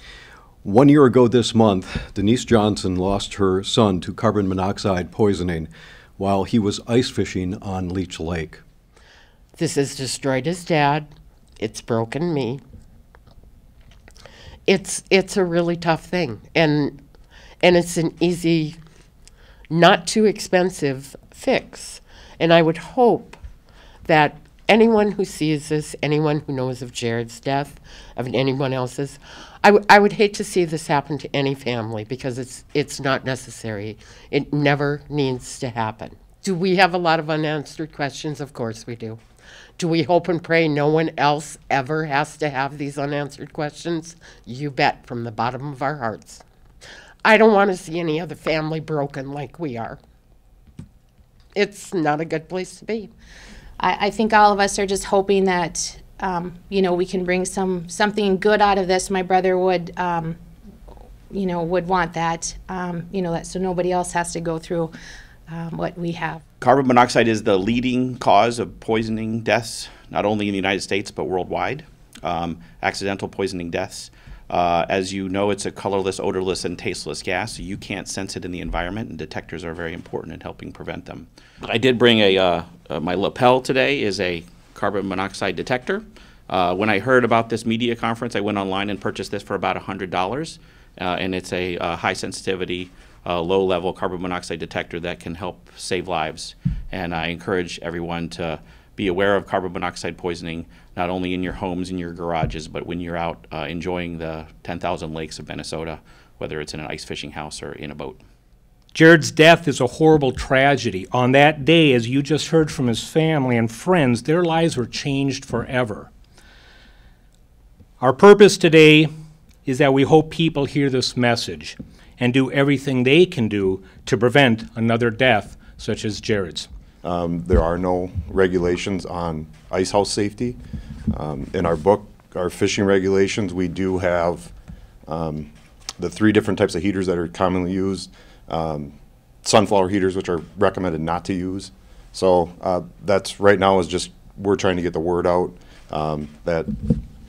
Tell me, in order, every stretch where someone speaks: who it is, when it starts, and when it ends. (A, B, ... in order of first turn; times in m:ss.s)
0:00.6-0:08.6 A
0:09.6-0:12.6 B
0:14.7-0:17.0 B
0:17.6-0:18.8 B
0:19.7-0:23.4 B
0:24.0-0:39.2 B
0:39.8-0:46.4 B
0:47.2-0:50.0 B
0:51.5-0:53.1 B
0:53.8-1:00.4 C
1:01.3-1:04.9 C
1:05.5-1:06.4 C
1:06.6-1:48.2 D
1:48.9-1:56.1 E
1:58.0-1:59.1 E
1:59.6-2:06.7 E
2:07.0-2:10.6 F
2:11.1-2:14.5 F
2:15.1-2:27.0 F